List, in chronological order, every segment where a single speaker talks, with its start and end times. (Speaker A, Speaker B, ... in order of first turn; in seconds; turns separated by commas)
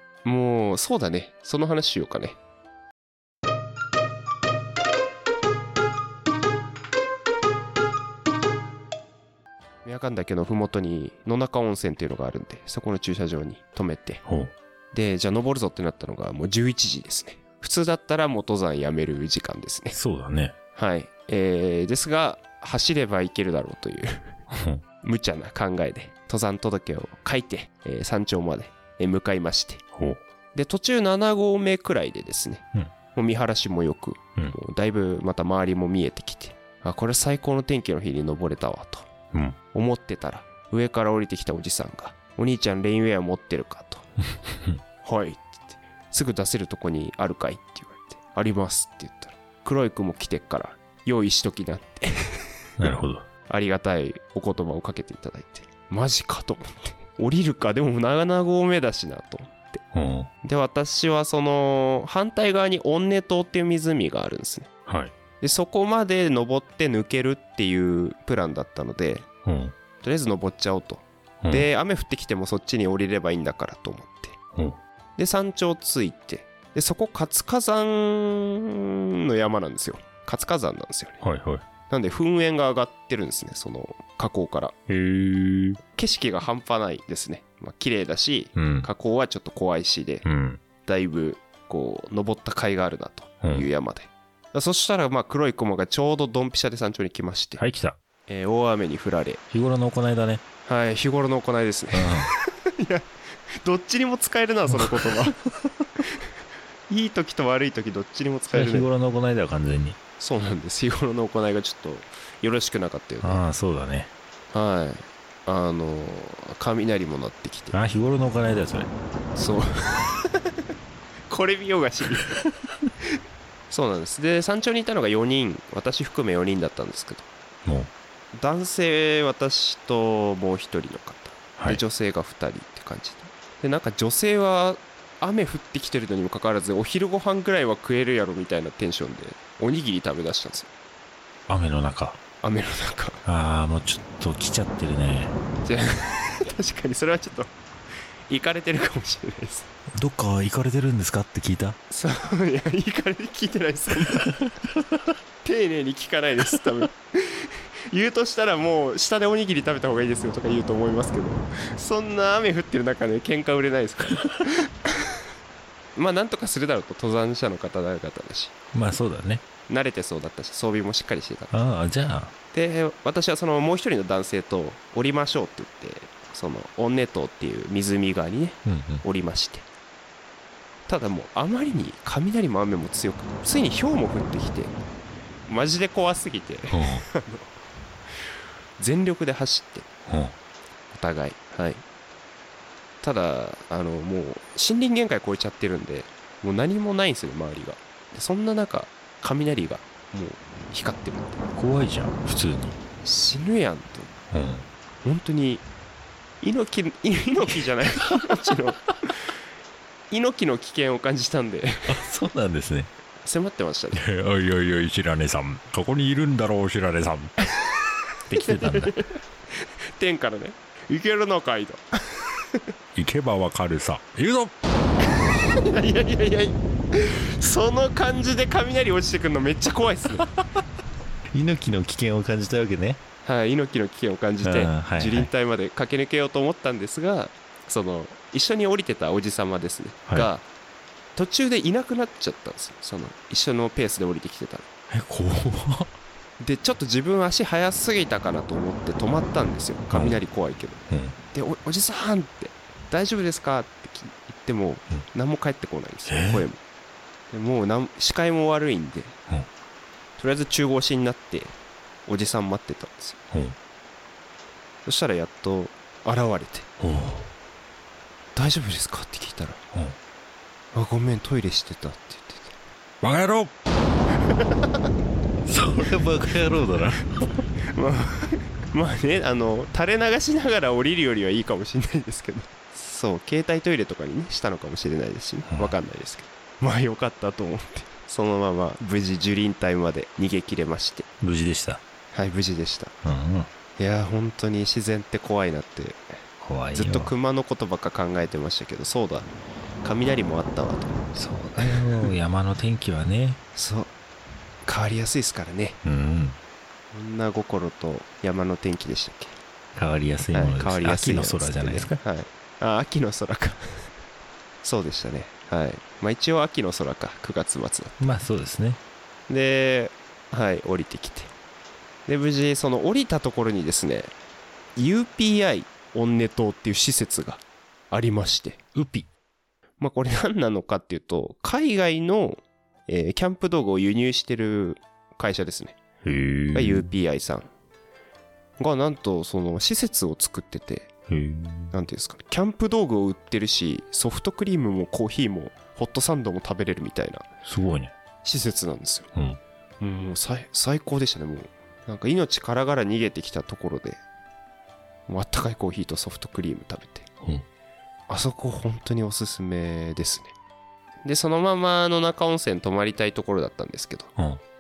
Speaker A: 0.2-2.4, Speaker A: 9.8-14.2, Speaker B: 14.2-14.5, Speaker A: 14.9-20.0, Speaker B: 19.9-20.6, Speaker A: 20.7-24.4, Speaker B: 24.5-24.8, Speaker A: 25.0-29.8, Speaker B: 29.9-30.2, Speaker A: 30.5-39.0, Speaker A: 39.7-44.0, Speaker B: 44.5-44.8, Speaker A: 45.0-52.4, Speaker B: 52.8-53.2, Speaker A: 53.5-59.8, Speaker B: 59.9-60.3, Speaker A: 60.4-64.7, Speaker B: 64.9-65.1, Speaker A: 65.4-69.3, Speaker B: 69.4-69.7, Speaker A: 70.0-74.4, Speaker B: 71.4-71.7, Speaker B: 74.5-74.8, Speaker A: 75.2-81.2, Speaker B: 81.2-81.6, Speaker A: 81.9-84.7, Speaker B: 84.9-85.8, Speaker A: 86.0-90.2, Speaker B: 88.5-88.9, Speaker B: 90.2-90.6, Speaker A: 90.8-97.6, Speaker B: 93.4-93.7, Speaker B: 97.6-98.0, Speaker A: 98.3-99.4, Speaker B: 99.5-100.4, Speaker A: 100.6-103.1, Speaker B: 101.9-102.3, Speaker A: 103.6-105.4, Speaker B: 104.7-105.2, Speaker A: 106.9-108.9, Speaker B: 108.5-110.0, Speaker A: 110.2-113.4, Speaker B: 113.2-114.1, Speaker A: 114.5-117.8, Speaker B: 117.7-118.9, Speaker A: 119.3-120.5, Speaker A: 121.3-122.3, Speaker A: 123.7-127.3, Speaker B: 127.6-127.9, Speaker A: 128.3-140.7, Speaker B: 131.6-131.8, Speaker B: 141.5-142.2, Speaker A: 142.4-143.2, Speaker B: 143.2-145.4, Speaker A: 145.6-147.5, Speaker A: 148.3-149.7, Speaker B: 150.0-151.8, Speaker A: 151.9-154.4, Speaker A: 155.4-165.1, Speaker A: 165.9-168.5, Speaker B: 168.7-169.4, Speaker A: 169.7-171.5, Speaker B: 171.5-172.3, Speaker A: 172.5-179.7, Speaker B: 178.6-179.0, Speaker A: 180.9-184.7, Speaker A: 185.4-187.6, Speaker B: 186.7-187.0, Speaker A: 188.8-189.9, Speaker B: 190.1-190.3, Speaker A: 190.9-191.8, Speaker A: 193.0-201.4, Speaker B: 201.6-202.8, Speaker A: 203.0-204.1, Speaker B: 204.3-204.7, Speaker A: 205.0-205.7, Speaker A: 206.4-209.2, Speaker A: 210.1-212.0, Speaker B: 211.9-212.9, Speaker A: 213.2-214.0, Speaker B: 213.9-217.3, Speaker B: 218.3-219.0, Speaker A: 218.3-222.6, Speaker B: 222.9-224.5, Speaker A: 225.2-230.3, Speaker B: 231.3-233.0, Speaker A: 233.2-240.5, Speaker B: 234.4-235.3, Speaker A: 241.2-244.7, Speaker B: 244.9-245.9, Speaker A: 246.4-250.8, Speaker B: 250.9-251.1, Speaker A: 251.3-256.6, Speaker B: 256.1-256.4, Speaker A: 257.3-259.2, Speaker A: 260.2-261.6, Speaker A: 262.1-263.2, Speaker A: 264.9-266.7, Speaker B: 266.8-267.3, Speaker A: 268.3-269.6, Speaker A: 270.7-272.5, Speaker B: 273.0-273.5, Speaker A: 274.3-274.9, Speaker B: 275.4-277.2, Speaker A: 277.7-291.1, Speaker B: 285.5-285.8, Speaker B: 291.2-291.8, Speaker A: 292.1-293.0, Speaker B: 293.0-293.5, Speaker A: 293.8-296.2, Speaker B: 296.4-297.1, Speaker A: 296.7-299.3, Speaker A: 299.8-301.1, Speaker B: 301.1-303.4, Speaker A: 301.6-302.1, Speaker A: 303.5-303.9, Speaker A: 304.6-305.8, Speaker B: 305.8-306.4, Speaker A: 306.9-309.4, Speaker B: 309.7-312.0, Speaker A: 310.3-313.9, Speaker A: 314.6-318.0, Speaker B: 318.0-318.8, Speaker A: 319.3-321.3, Speaker A: 322.1-324.1, Speaker A: 324.8-328.6, Speaker B: 328.7-329.1, Speaker A: 329.8-335.8, Speaker B: 336.0-336.9, Speaker A: 336.5-337.5, Speaker A: 338.6-340.9, Speaker B: 341.1-341.7, Speaker A: 341.7-347.3, Speaker B: 347.4-347.9, Speaker A: 348.2-349.1, Speaker B: 349.1-349.4, Speaker A: 349.8-354.0, Speaker A: 355.1-357.1, Speaker A: 358.1-360.3, Speaker A: 361.0-364.1